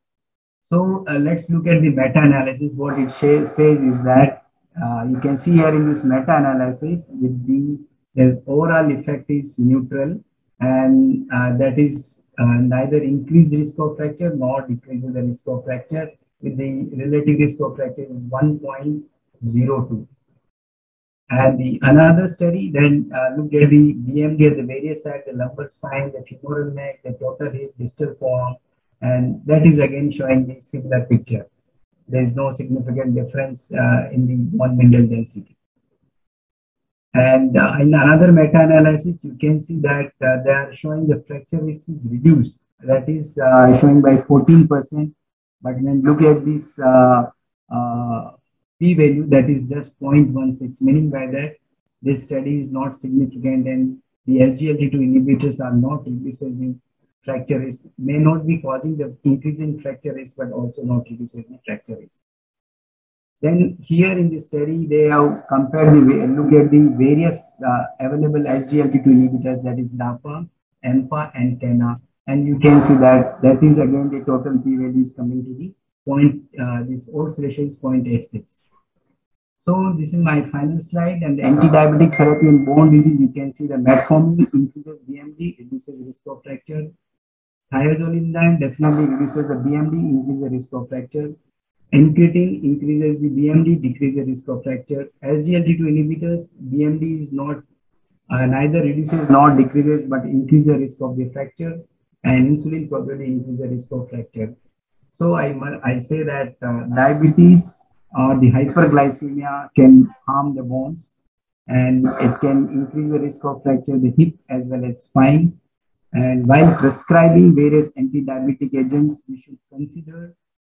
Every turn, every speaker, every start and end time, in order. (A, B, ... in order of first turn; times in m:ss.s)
0:00.6-0:20.1 A
0:21.3-0:31.4 A
0:32.1-0:35.5 A
0:37.1-1:02.2 A
1:03.4-1:18.6 A
1:19.6-1:26.9 A
1:27.7-1:31.3 A
1:31.9-1:37.6 A
1:38.3-1:44.5 A
1:45.1-1:51.1 A
1:51.7-1:55.5 A
1:56.1-2:00.3 A